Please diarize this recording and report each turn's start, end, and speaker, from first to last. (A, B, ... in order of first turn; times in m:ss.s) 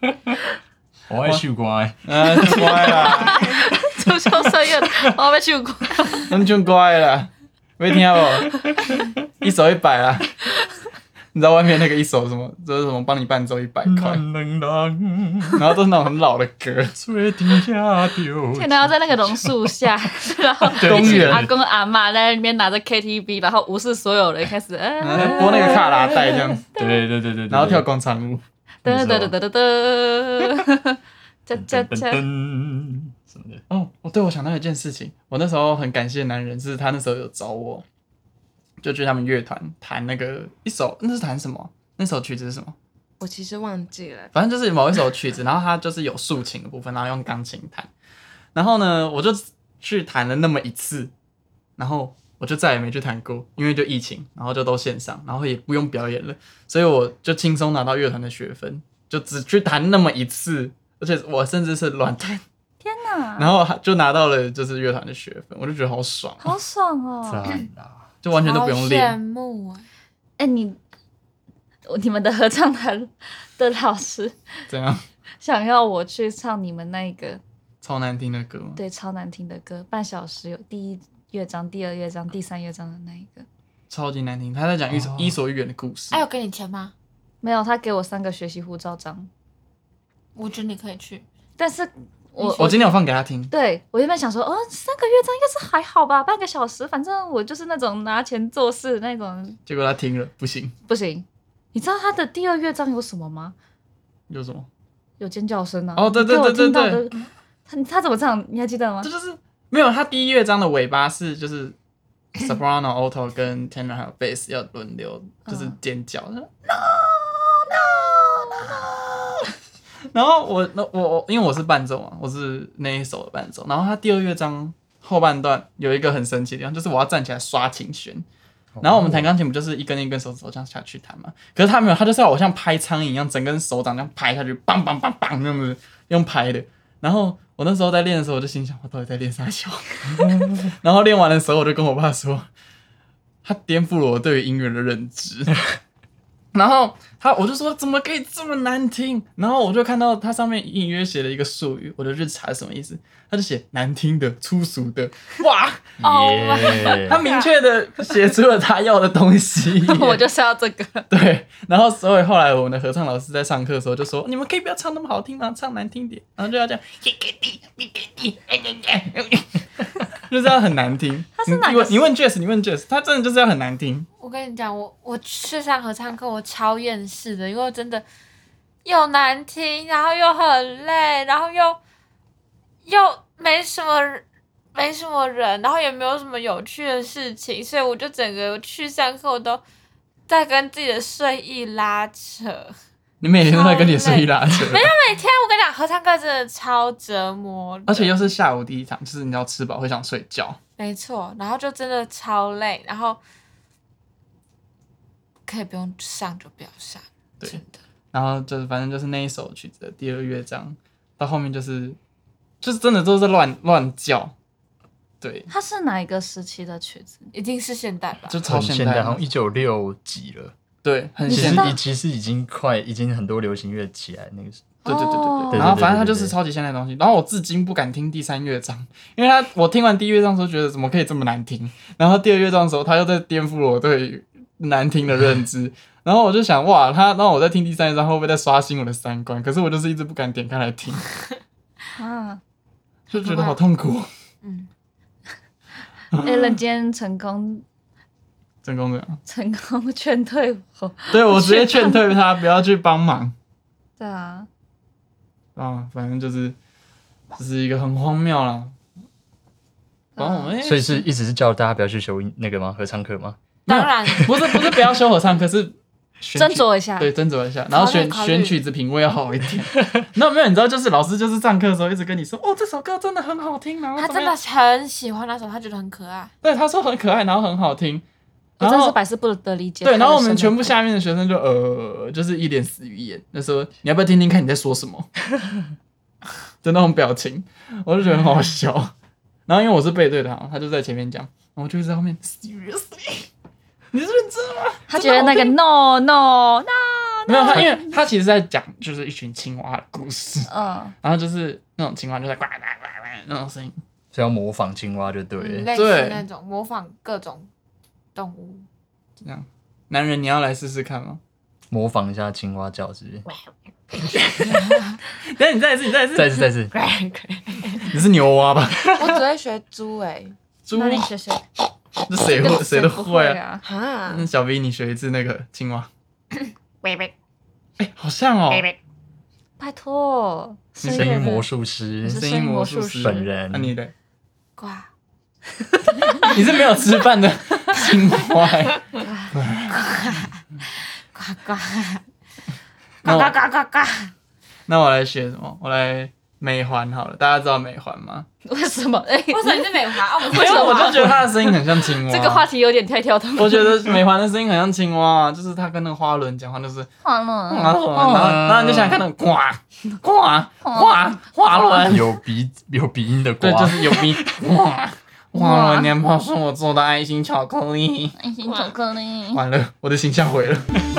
0:01.1-0:05.0 A
0:02.0-0:03.6 B
0:02.5-0:06.3 C
0:06.3-0:08.6 B
0:08.6-0:09.2 A
0:09.4-0:10.3 B
0:11.3-0:14.2 B
0:13.8-0:15.7 A
0:15.6-0:16.9 B
0:17.0-0:19.8 A
0:18.5-0:26.1 C
0:20.6-0:21.5 A
0:20.8-0:21.5 B
0:25.0-0:26.6 B
0:25.4-0:27.8 A
0:26.8-0:27.0 C
0:27.5-0:28.4 B
0:28.8-0:29.3 A
0:28.8-0:32.2 C
0:31.5-0:33.6 A
0:33.7-0:37.8 B
0:38.8-0:42.8 B
0:43.2-0:44.3 D
0:44.3-0:47.9 B
0:48.5-0:51.1 B
0:51.8-1:02.4 B
1:02.8-1:03.5 C
1:03.4-1:06.6 B
1:06.4-1:07.5 C
1:07.2-1:08.1 A
1:08.2-1:09.2 B
1:08.3-1:09.8 E
1:10.4-1:10.8 C
1:11.9-1:14.3 C
1:14.7-1:15.0 B
1:15.4-1:17.4 C
1:17.8-1:18.8 B
1:18.8-1:23.4 C
1:23.9-1:26.2 B
1:26.1-1:26.9 E
1:27.4-1:29.3 C
1:30.4-1:31.2 E
1:31.6-1:33.0 C
1:32.4-1:33.5 B
1:33.5-1:39.6 C
1:39.7-1:40.7 B
1:40.9-1:43.5 C
1:44.3-1:44.7 B
1:45.2-1:47.2 C
1:46.0-1:47.0 B
1:47.7-1:49.1 C
1:49.0-1:51.8 B
1:52.4-1:59.4 B
1:55.5-1:55.8 C
2:00.1-2:08.2 B
2:08.7-2:09.3 A
2:08.8-2:22.5 B
2:23.4-2:25.6 B
2:26.5-2:35.9 B
2:36.0-2:37.2 A
2:36.0-2:37.5 E
2:36.8-2:40.2 B
2:39.9-2:41.1 C
2:41.1-2:49.4 B
2:50.1-2:54.1 B
2:51.3-2:52.1 C
2:54.2-2:58.0 E
2:58.8-3:01.8 E
3:02.8-3:09.6 E
3:10.3-3:12.7 E
3:13.2-3:14.9 B
3:13.4-3:18.2 E
3:17.9-3:20.6 B
3:20.8-3:23.2 E
3:25.5-3:27.8 E
3:28.1-3:32.0 B
3:32.6-3:34.3 B
3:35.2-3:35.5 B
3:35.5-3:37.3 C
3:37.3-3:38.4 E
3:38.3-3:39.2 B
3:38.4-3:40.5 A
3:40.8-3:41.8 B
3:41.3-3:41.8 C
3:41.3-3:44.7 A
3:44.8-3:45.7 C
3:44.8-4:01.0 B
3:45.5-3:46.3 A
4:02.0-4:02.4 C
4:03.1-4:04.1 B
4:03.2-4:03.6 E
4:04.4-4:04.7 E
4:06.1-4:06.6 B
4:06.2-4:07.6 C
4:08.6-4:09.2 B
4:09.2-4:12.1 C
4:11.1-4:13.3 B
4:14.0-4:14.5 C
4:15.6-4:16.6 B
4:17.4-4:18.7 B
4:20.2-4:20.5 C
4:20.2-4:21.1 B
4:20.6-4:23.4 A
4:23.7-4:24.3 E
4:23.7-4:34.3 B
4:24.1-4:25.0 A
4:26.4-4:27.1 C
4:27.7-4:28.6 E
4:34.0-4:36.3 E
4:36.4-4:38.0 B
4:38.6-4:40.7 C
4:38.6-4:39.0 B
4:39.8-4:45.1 B
4:46.6-4:48.9 B
4:49.5-4:53.3 B
4:53.9-4:55.6 B
4:54.9-4:57.9 C
4:57.3-5:00.5 B
5:00.5-5:00.9 C
5:01.0-5:03.8 B
5:04.1-5:05.7 A
5:05.4-5:07.5 E
5:05.7-5:06.2 B
5:08.1-5:08.6 E
5:09.2-5:11.2 B
5:11.7-5:13.2 A
5:13.3-5:14.2 D
5:14.3-5:14.8 B
5:15.3-5:16.4 B
5:16.1-5:16.7 A
5:16.7-5:18.0 D
5:17.9-5:19.0 B
5:18.9-5:20.4 D
5:20.6-5:21.1 B
5:20.7-5:21.4 C
5:22.1-5:23.4 B
5:22.2-5:23.6 C
5:23.6-5:24.3 D
5:24.1-5:25.9 B
5:26.8-5:27.1 E
5:27.8-5:28.7 B
5:29.6-5:31.5 C
5:30.8-5:31.2 B
5:30.9-5:32.3 A
5:32.0-5:33.3 C
5:32.0-5:33.9 B
5:33.0-5:33.7 A
5:34.6-5:34.9 E
5:35.9-5:36.3 C
5:36.2-5:39.9 B
5:39.7-5:42.0 E
5:43.0-5:43.4 B
5:43.0-5:44.1 E
5:44.7-5:48.3 B
5:48.4-5:51.5 C
5:49.3-5:51.2 E
5:50.3-5:52.4 B
5:52.1-5:53.9 C
5:53.4-5:56.9 B
5:57.0-5:57.8 C
5:57.5-6:02.1 B
5:57.9-5:59.0 A
6:00.6-6:01.0 C
6:01.9-6:04.3 A
6:03.4-6:08.2 B
6:05.3-6:05.9 C
6:08.2-6:09.4 C
6:08.4-6:08.7 E
6:09.3-6:10.7 B